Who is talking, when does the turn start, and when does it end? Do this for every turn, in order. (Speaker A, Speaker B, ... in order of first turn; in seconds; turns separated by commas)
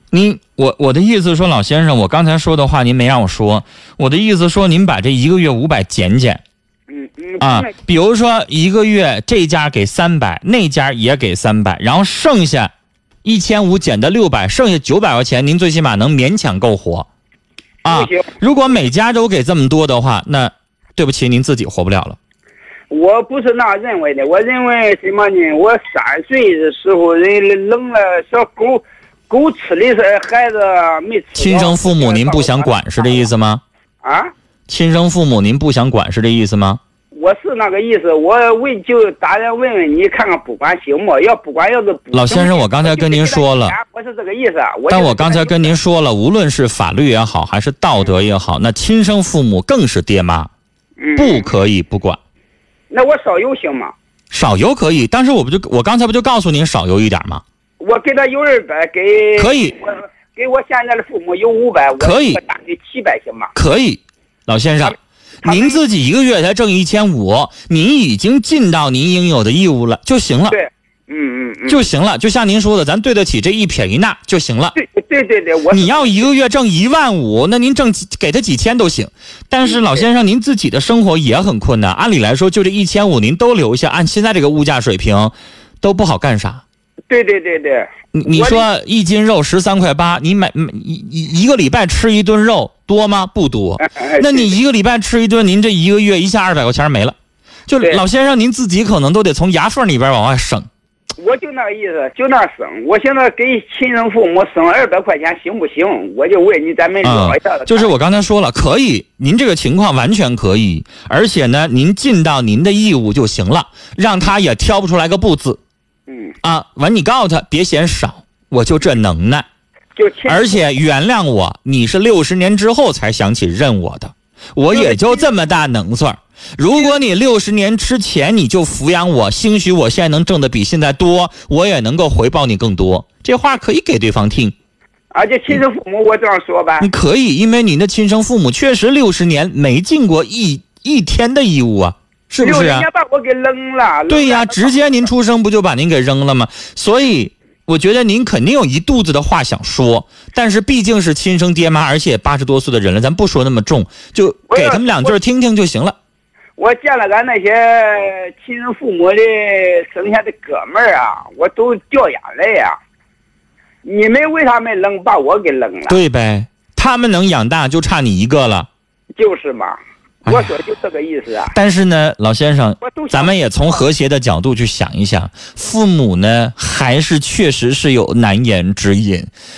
Speaker A: 0.1-6.4, Speaker B: 6.9-7.7, Speaker A: 7.4-12.7, Speaker A: 13.2-17.1, Speaker A: 17.8-22.2, Speaker B: 17.9-18.3, Speaker B: 22.9-33.3, Speaker A: 31.4-33.6, Speaker B: 34.0-34.3, Speaker A: 34.7-36.8, Speaker B: 37.1-45.7, Speaker A: 42.1-43.8, Speaker A: 44.9-50.5, Speaker B: 51.0-51.5, Speaker A: 51.2-52.2, Speaker B: 52.9-53.9, Speaker A: 54.3-57.4, Speaker B: 57.8-63.5, Speaker A: 59.4-59.8, Speaker A: 62.0-62.4, Speaker A: 63.5-70.6, Speaker B: 64.8-65.8, Speaker B: 70.5-71.8, Speaker A: 71.7-74.7, Speaker B: 74.7-76.3, Speaker A: 75.7-86.6, Speaker B: 79.6-80.0, Speaker B: 87.1-88.6, Speaker A: 88.1-97.2, Speaker B: 93.8-94.5, Speaker A: 97.7-100.7, Speaker B: 101.2-107.9, Speaker A: 107.0-115.6, Speaker B: 116.1-116.3, Speaker A: 116.4-119.5, Speaker B: 120.0-120.6, Speaker A: 120.2-134.5, Speaker B: 124.7-125.3, Speaker B: 126.7-127.0, Speaker B: 135.1-136.9, Speaker A: 136.8-142.8, Speaker B: 142.4-144.8, Speaker A: 144.1-155.9, Speaker B: 154.5-155.1, Speaker B: 156.6-162.8, Speaker B: 163.8-166.0, Speaker A: 165.9-168.7, Speaker B: 169.2-171.5, Speaker A: 171.5-179.3, Speaker B: 172.8-173.9